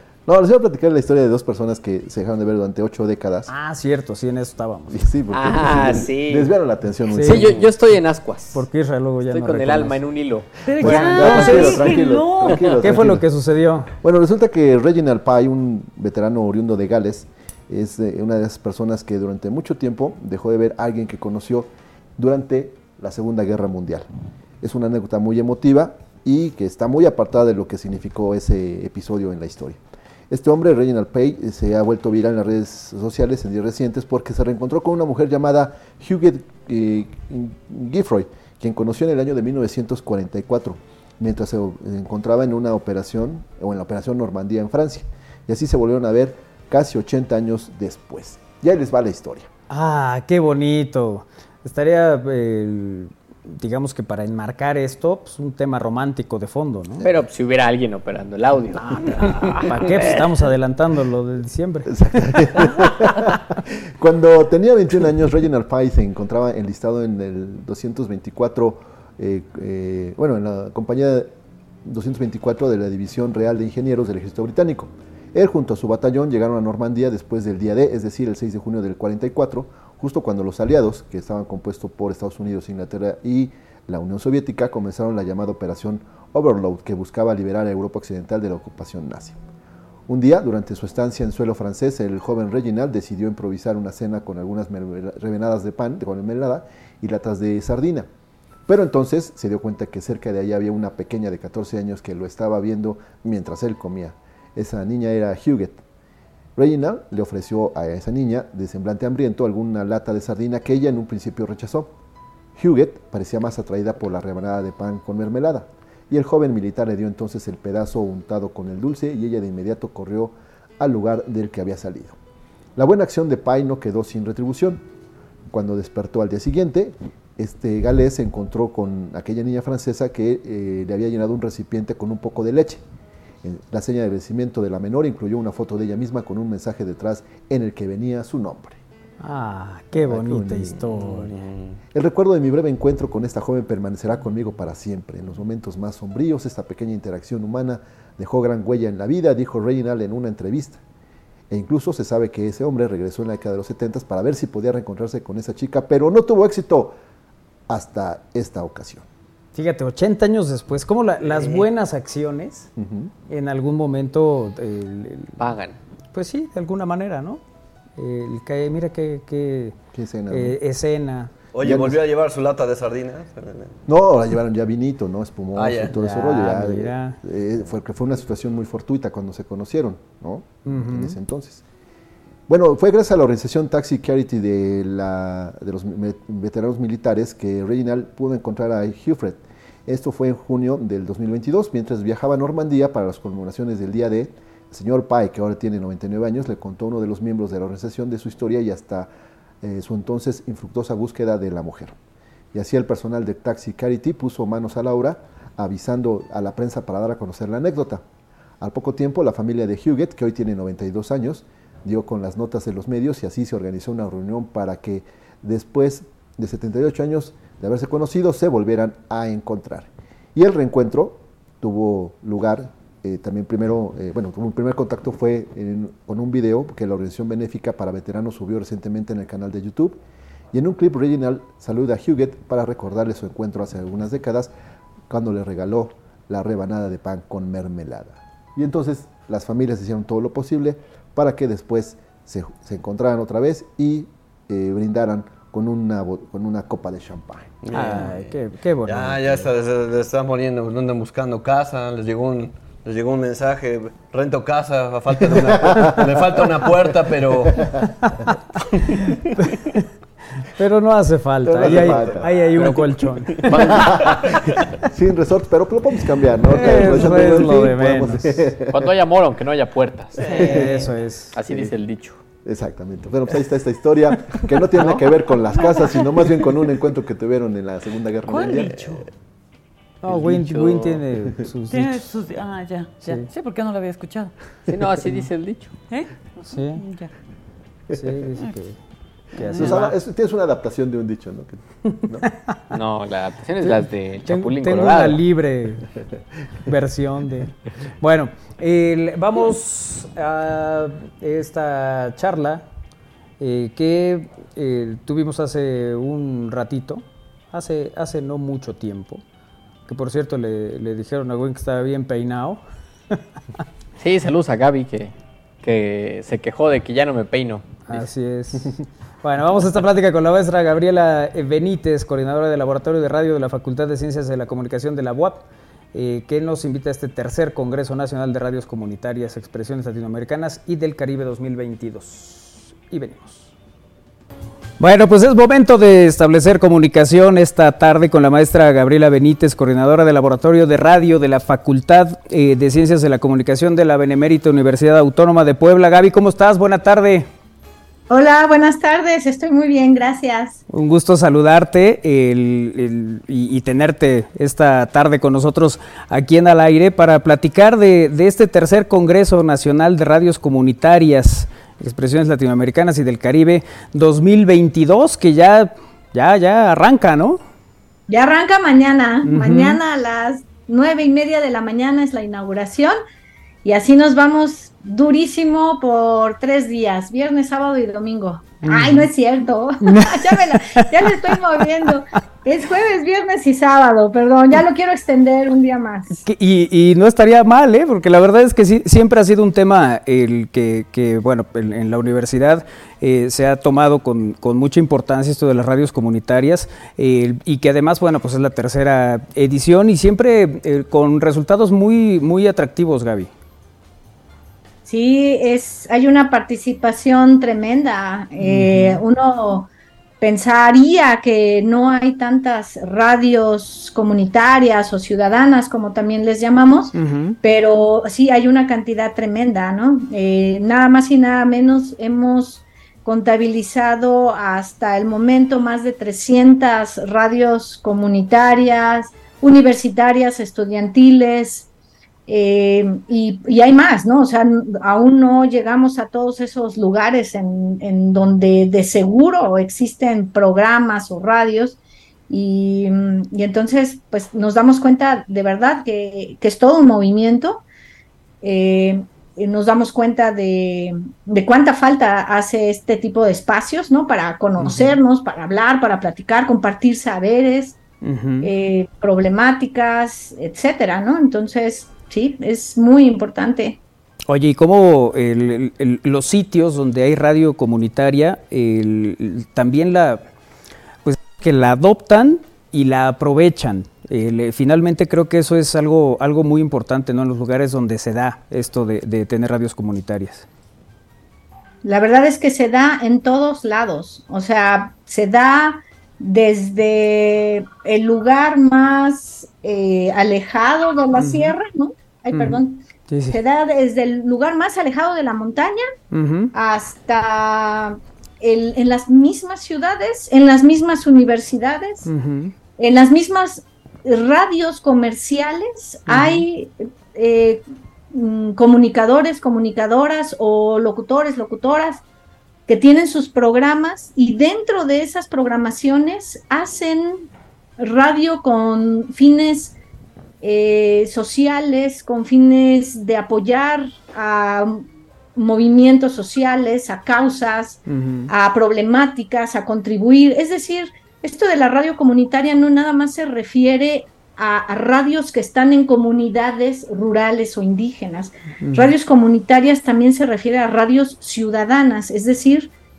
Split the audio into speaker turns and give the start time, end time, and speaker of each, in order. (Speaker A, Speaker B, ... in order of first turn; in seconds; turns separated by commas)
Speaker A: 0.3-3.5, Speaker B: 3.5-5.0, Speaker A: 4.9-7.7, Speaker C: 5.3-6.5, Speaker B: 7.1-7.5, Speaker C: 7.2-8.7, Speaker B: 8.5-10.0, Speaker C: 9.3-10.6, Speaker D: 10.6-12.8, Speaker A: 10.8-13.3, Speaker B: 10.8-11.9, Speaker B: 12.8-13.9, Speaker A: 14.0-24.1, Speaker A: 24.6-49.5, Speaker B: 49.7-57.0, Speaker C: 57.0-60.3, Speaker B: 58.8-62.8, Speaker A: 61.9-71.3, Speaker A: 71.8-89.4, Speaker A: 90.1-98.1, Speaker A: 98.7-105.8, Speaker A: 106.6-111.9, Speaker A: 112.6-122.2, Speaker A: 122.8-124.8, Speaker A: 125.5-132.8, Speaker A: 133.4-138.8, Speaker B: 139.2-141.3, Speaker A: 140.0-141.3, Speaker E: 141.3-141.5, Speaker A: 141.9-150.8, Speaker A: 151.5-157.0, Speaker A: 157.7-159.1, Speaker B: 159.6-162.7, Speaker A: 162.8-163.1, Speaker B: 163.3-165.4, Speaker C: 165.4-165.8, Speaker B: 166.1-167.4, Speaker B: 168.0-169.8, Speaker A: 169.9-170.6, Speaker B: 170.3-171.3, Speaker E: 171.5-173.8, Speaker A: 171.6-172.0, Speaker A: 173.9-181.6, Speaker E: 175.6-176.0, Speaker B: 175.9-177.2, Speaker B: 180.7-181.2, Speaker A: 182.5-199.1, Speaker A: 199.6-202.0, Speaker A: 202.5-208.0, Speaker A: 208.6-230.0, Speaker A: 230.5-234.5, Speaker A: 235.1-247.7, Speaker E: 247.6-248.3, Speaker B: 247.7-249.5, Speaker E: 248.8-257.8, Speaker A: 255.3-257.8, Speaker B: 257.9-258.3, Speaker E: 258.8-259.3, Speaker B: 259.4-259.9, Speaker B: 260.4-263.9, Speaker A: 261.4-262.3, Speaker C: 262.6-264.6, Speaker A: 263.6-268.9, Speaker B: 266.5-268.5, Speaker C: 268.7-270.6, Speaker A: 270.2-270.8, Speaker D: 270.2-270.9, Speaker B: 270.4-271.3, Speaker C: 271.3-272.2, Speaker A: 271.5-271.7, Speaker A: 272.4-279.1, Speaker D: 274.8-276.5, Speaker D: 278.3-279.1, Speaker B: 280.0-282.1, Speaker C: 280.1-281.0, Speaker D: 281.7-284.3, Speaker C: 284.7-285.7, Speaker B: 286.5-286.8, Speaker D: 286.8-287.1, Speaker B: 287.9-288.8, Speaker D: 289.4-289.8, Speaker B: 289.4-290.0, Speaker A: 289.5-292.3, Speaker C: 292.7-295.2, Speaker B: 293.6-295.9, Speaker B: 296.7-302.6, Speaker B: 303.4-309.2, Speaker B: 309.9-313.2, Speaker C: 314.0-318.1, Speaker B: 317.9-325.4, Speaker B: 325.9-333.5, Speaker B: 334.8-347.3, Speaker F: 348.1-350.6, Speaker B: 350.7-367.4, Speaker F: 368.1-372.9, Speaker B: 369.2-369.8, Speaker F: 373.6-386.2, Speaker B: 378.6-379.1, Speaker B: 379.8-381.9, Speaker B: 386.2-403.3, Speaker F: 404.9-409.7, Speaker B: 408.4-409.0, Speaker F: 410.2-431.7, Speaker B: 416.9-417.4, Speaker F: 432.3-441.8, Speaker F: 442.3-447.6, Speaker F: 448.4-457.8, Speaker B: 454.6-455.0, Speaker B: 458.0-458.5, Speaker F: 458.4-463.8, Speaker B: 464.3-470.2, Speaker B: 471.1-480.5, Speaker F: 481.8-495.8, Speaker B: 491.1-491.6, Speaker B: 492.3-493.4, Speaker B: 496.1-496.5, Speaker F: 496.5-502.1, Speaker B: 502.1-502.5, Speaker F: 502.8-512.0, Speaker B: 506.1-506.5, Speaker F: 512.7-517.3, Speaker F: 517.8-519.8, Speaker F: 520.4-542.7, Speaker B: 527.9-528.3, Speaker B: 538.6-538.9